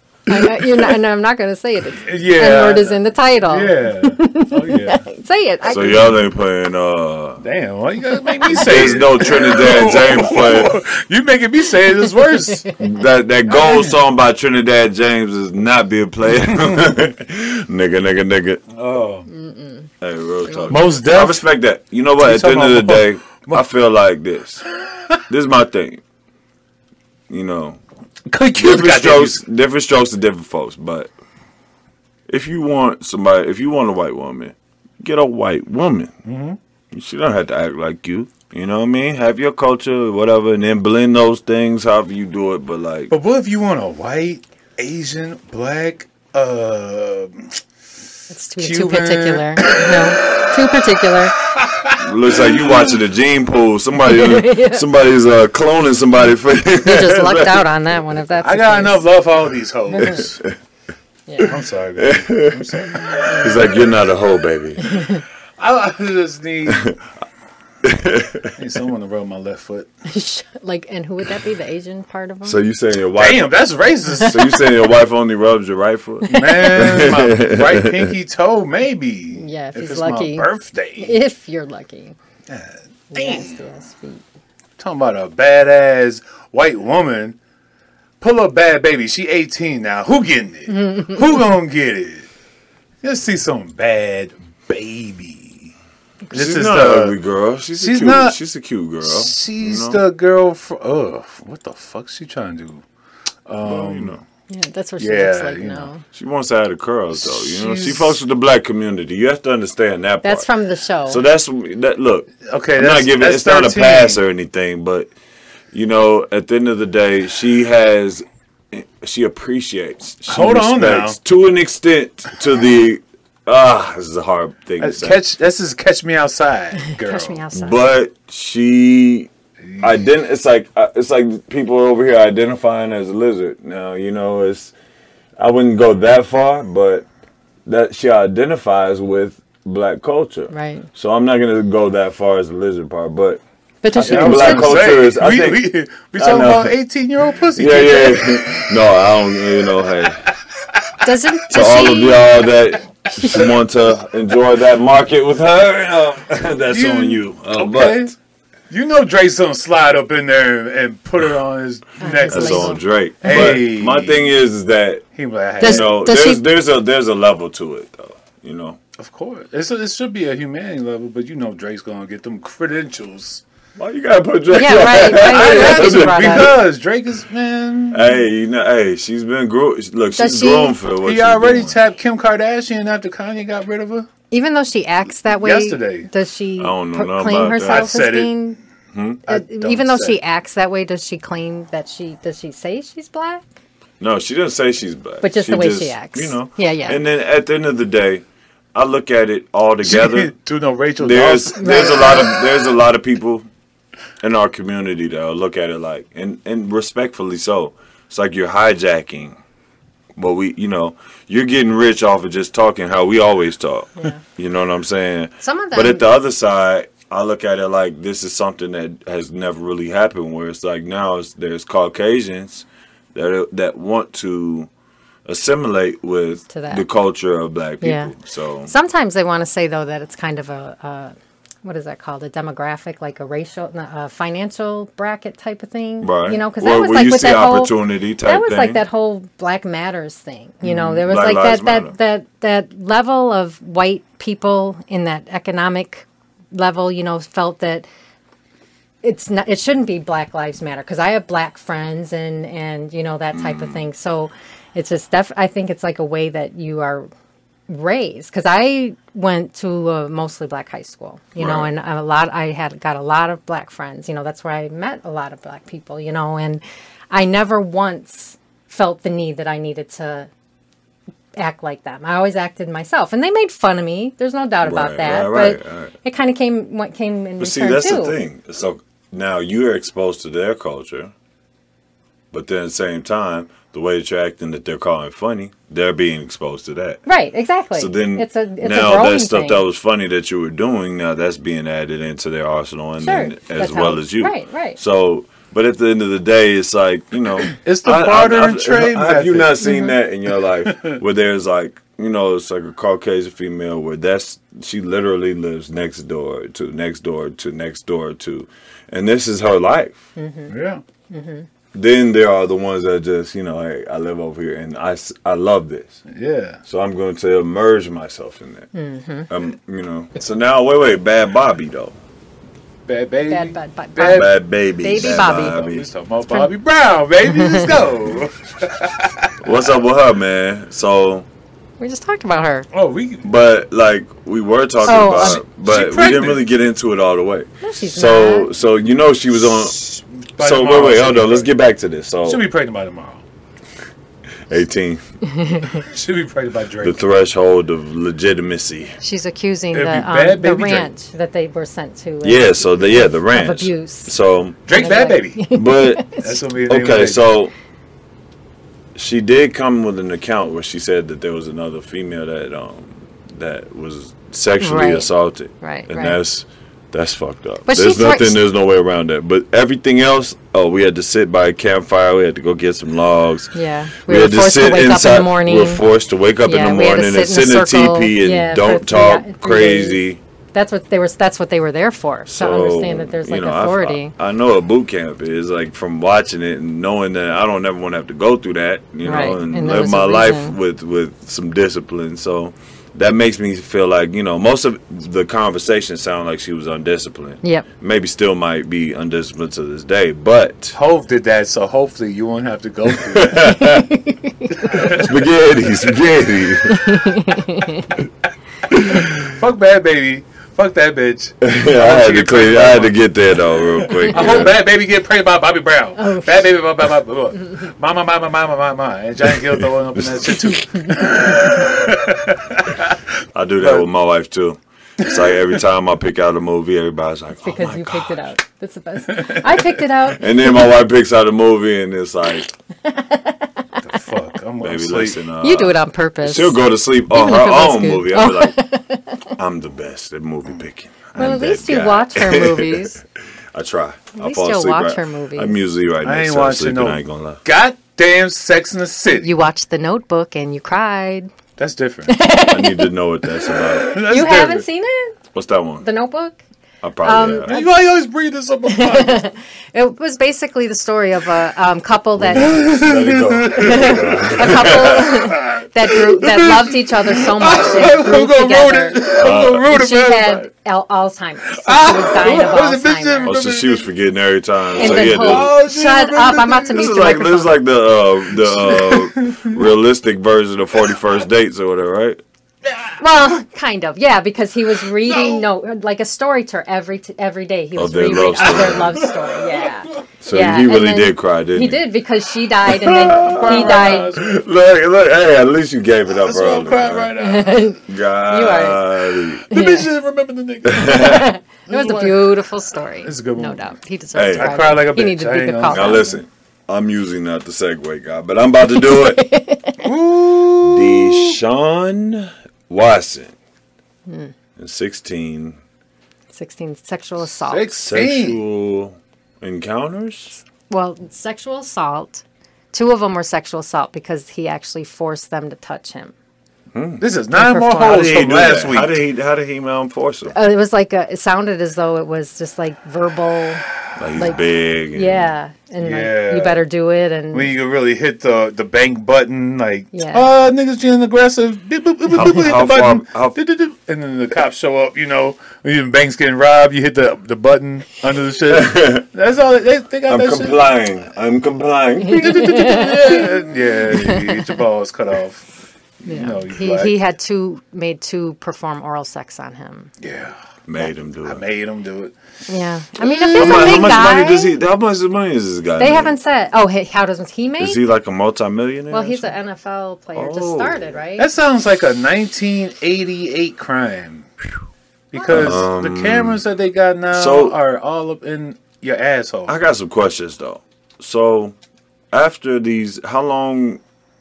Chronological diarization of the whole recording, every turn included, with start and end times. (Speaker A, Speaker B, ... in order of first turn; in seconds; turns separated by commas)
Speaker A: 0.3-6.2, Speaker B: 2.0-5.0, Speaker C: 5.7-7.4, Speaker B: 5.7-6.0, Speaker B: 7.4-12.7, Speaker C: 8.5-10.8, Speaker A: 12.3-12.8, Speaker C: 12.8-18.6, Speaker B: 13.5-13.9, Speaker B: 16.4-16.9, Speaker B: 18.7-19.3, Speaker A: 19.3-19.9, Speaker C: 20.0-24.6, Speaker A: 20.4-20.8, Speaker B: 20.7-21.4, Speaker B: 22.2-23.7, Speaker C: 25.3-26.0, Speaker C: 27.3-27.8, Speaker B: 28.3-29.4, Speaker C: 28.6-31.1, Speaker C: 32.3-36.1, Speaker B: 36.2-36.6, Speaker C: 36.9-43.1, Speaker B: 43.1-47.5, Speaker A: 48.3-51.3, Speaker B: 48.6-50.5, Speaker B: 51.5-53.0, Speaker C: 52.0-57.6, Speaker A: 54.0-54.9, Speaker A: 56.8-59.0, Speaker B: 58.4-60.4, Speaker A: 59.9-60.2, Speaker A: 61.3-61.5, Speaker B: 61.4-63.7, Speaker C: 62.0-65.0, Speaker A: 63.2-63.5, Speaker A: 64.8-65.2, Speaker B: 65.6-66.9, Speaker C: 66.7-67.0, Speaker C: 67.8-68.5, Speaker B: 68.5-69.9, Speaker A: 70.1-72.6, Speaker C: 72.4-73.5, Speaker B: 73.1-74.7, Speaker C: 74.2-78.1, Speaker B: 76.3-81.2, Speaker A: 79.3-82.2, Speaker B: 82.5-83.6, Speaker A: 83.1-84.2, Speaker B: 84.8-87.4, Speaker B: 88.2-92.3, Speaker A: 90.8-91.2, Speaker B: 93.0-95.7, Speaker B: 96.3-97.2, Speaker C: 96.3-100.0, Speaker B: 97.8-98.3, Speaker B: 99.0-102.8, Speaker B: 103.5-104.2, Speaker C: 103.6-104.2, Speaker A: 104.5-106.0, Speaker B: 105.0-105.9, Speaker C: 106.1-110.5, Speaker B: 107.2-108.2, Speaker A: 110.2-111.2, Speaker C: 111.1-115.1, Speaker B: 112.5-114.2, Speaker C: 115.7-125.2, Speaker B: 120.3-121.2, Speaker B: 124.8-127.4, Speaker A: 126.9-127.8, Speaker C: 127.5-129.3, Speaker B: 129.6-129.9, Speaker C: 129.8-134.7, Speaker C: 135.4-137.1, Speaker C: 137.7-145.6, Speaker A: 140.5-140.9, Speaker A: 143.8-144.8, Speaker B: 143.9-148.7, Speaker C: 146.2-146.7, Speaker C: 147.5-150.2, Speaker A: 151.0-152.3, Speaker C: 151.5-158.1, Speaker B: 156.7-158.1, Speaker B: 158.7-164.3, Speaker A: 162.0-163.5, Speaker C: 162.3-165.0, Speaker B: 165.1-165.9, Speaker A: 165.6-166.4, Speaker C: 165.6-168.8, Speaker B: 169.0-173.4, Speaker C: 173.8-176.6, Speaker A: 174.5-176.5, Speaker B: 175.0-178.2, Speaker C: 177.9-181.8, Speaker A: 180.1-180.8, Speaker B: 181.0-184.1, Speaker A: 184.3-188.6, Speaker B: 185.3-186.1, Speaker C: 186.6-187.9, Speaker B: 187.6-188.3, Speaker C: 188.9-189.2, Speaker B: 189.3-190.2, Speaker A: 189.3-193.4, Speaker C: 194.0-198.2, Speaker A: 195.2-197.0, Speaker C: 198.7-200.3, Speaker B: 199.8-202.3, Speaker C: 201.0-203.5, Speaker A: 201.6-202.3, Speaker C: 204.2-209.4, Speaker C: 210.2-224.7, Speaker A: 214.0-214.2, Speaker A: 215.4-216.1, Speaker C: 225.2-228.7, Speaker A: 226.5-226.8, Speaker A: 227.8-228.1, Speaker A: 228.7-231.1, Speaker A: 231.6-247.8, Speaker C: 236.0-238.8, Speaker C: 240.6-241.9, Speaker A: 249.0-257.1, Speaker C: 253.3-253.8, Speaker A: 257.7-270.3, Speaker C: 261.4-261.7, Speaker A: 271.4-278.2, Speaker C: 274.6-275.9, Speaker C: 277.4-281.1, Speaker C: 282.3-287.0, Speaker A: 287.1-289.6, Speaker C: 287.7-310.0, Speaker A: 293.0-294.8, Speaker B: 297.5-299.8, Speaker A: 299.6-299.9, Speaker B: 300.6-301.0, Speaker A: 310.1-310.5, Speaker B: 310.5-310.8, Speaker A: 311.1-311.5, Speaker C: 311.7-316.0, Speaker B: 316.1-316.6, Speaker C: 316.7-318.7, Speaker A: 318.7-319.3, Speaker C: 319.3-321.9, Speaker B: 322.9-324.3, Speaker A: 323.3-325.7, Speaker C: 324.1-325.9, Speaker B: 324.9-329.5, Speaker A: 327.3-327.7, Speaker C: 329.4-331.3, Speaker A: 331.8-332.7, Speaker B: 332.7-333.2, Speaker C: 333.2-339.8, Speaker A: 334.8-335.4, Speaker B: 335.2-336.4, Speaker A: 337.6-338.5, Speaker B: 339.5-341.5, Speaker C: 340.4-342.4, Speaker B: 342.2-343.2, Speaker C: 344.5-345.0, Speaker A: 345.2-345.9, Speaker B: 345.8-347.0, Speaker C: 346.8-349.0, Speaker A: 349.0-354.1, Speaker B: 349.7-350.9, Speaker C: 352.2-354.6, Speaker B: 354.6-355.4, Speaker A: 354.7-356.4, Speaker C: 355.5-357.5, Speaker B: 356.2-357.3, Speaker C: 358.9-373.5, Speaker A: 364.6-365.1, Speaker A: 365.6-366.2, Speaker A: 367.7-368.4, Speaker A: 373.5-375.8, Speaker C: 374.0-380.2, Speaker A: 376.4-380.0, Speaker A: 380.5-384.1, Speaker C: 382.2-400.8, Speaker A: 389.0-390.6, Speaker B: 400.7-403.6, Speaker C: 402.9-403.9, Speaker A: 403.4-405.1, Speaker B: 404.5-405.1, Speaker C: 404.7-407.1, Speaker A: 406.7-408.0, Speaker C: 408.7-409.3, Speaker B: 408.8-412.9, Speaker C: 411.4-414.6, Speaker A: 414.0-414.5, Speaker B: 414.0-423.0, Speaker A: 416.0-416.5, Speaker C: 419.3-420.6, Speaker A: 420.7-421.6, Speaker C: 423.3-428.3, Speaker B: 423.6-423.9, Speaker A: 427.4-430.6, Speaker B: 429.1-429.4, Speaker C: 430.1-432.5, Speaker A: 432.8-433.7, Speaker B: 433.8-435.2, Speaker C: 434.6-438.6, Speaker A: 435.4-436.6, Speaker A: 437.1-439.3, Speaker C: 439.4-443.0, Speaker A: 441.1-443.0, Speaker C: 443.5-447.4, Speaker A: 444.1-445.6, Speaker B: 446.0-449.3, Speaker A: 449.2-451.3, Speaker B: 451.6-452.1, Speaker A: 452.1-452.9, Speaker C: 452.5-453.9, Speaker B: 453.8-454.6, Speaker A: 453.9-455.2, Speaker C: 455.3-455.9, Speaker A: 455.8-456.4, Speaker C: 456.8-457.5, Speaker A: 457.0-457.7, Speaker B: 457.4-459.3, Speaker A: 458.6-462.6, Speaker C: 462.2-465.2, Speaker B: 462.3-470.5, Speaker A: 463.6-473.4, Speaker C: 469.2-469.7, Speaker B: 471.5-473.9, Speaker C: 473.2-475.6, Speaker B: 474.7-476.9, Speaker A: 474.7-477.6, Speaker C: 476.7-482.2, Speaker B: 478.3-479.6, Speaker A: 483.0-494.1, Speaker B: 485.0-485.4, Speaker C: 487.8-489.0, Speaker B: 488.3-489.7, Speaker C: 490.2-491.8, Speaker C: 492.6-497.1, Speaker B: 492.9-494.4, Speaker B: 496.2-497.7, Speaker A: 497.2-499.9, Speaker C: 497.9-499.4, Speaker B: 499.5-502.4, Speaker C: 500.7-501.3, Speaker A: 500.8-506.1, Speaker B: 503.0-503.7, Speaker C: 504.1-504.8, Speaker B: 504.2-506.2, Speaker C: 505.7-509.2, Speaker A: 508.7-509.9, Speaker B: 509.8-511.4, Speaker C: 510.6-513.3, Speaker A: 514.1-514.3, Speaker C: 514.6-515.6, Speaker A: 516.3-517.7, Speaker B: 517.5-518.4, Speaker C: 517.8-520.4, Speaker A: 520.7-526.1, Speaker C: 526.7-527.0, Speaker B: 527.0-529.0, Speaker A: 527.3-528.1, Speaker C: 527.8-530.3, Speaker A: 530.3-533.6, Speaker C: 534.0-535.3, Speaker A: 534.9-537.5, Speaker B: 535.8-536.6, Speaker B: 537.3-550.8, Speaker A: 539.9-540.3, Speaker C: 542.1-543.4, Speaker C: 548.5-549.0, Speaker C: 550.1-552.8, Speaker A: 552.0-554.5, Speaker B: 552.1-555.4, Speaker B: 556.0-557.0, Speaker A: 556.0-559.9, Speaker B: 560.0-560.4, Speaker C: 560.7-561.4, Speaker B: 561.2-562.1, Speaker A: 562.5-564.5, Speaker B: 563.0-564.1, Speaker C: 563.3-566.1, Speaker A: 565.8-567.8, Speaker C: 567.6-569.3, Speaker A: 568.9-571.3, Speaker C: 570.1-571.0, Speaker B: 571.2-574.3, Speaker B: 575.1-579.5, Speaker C: 575.3-576.4, Speaker C: 577.1-577.5, Speaker C: 579.5-581.5, Speaker C: 582.1-583.8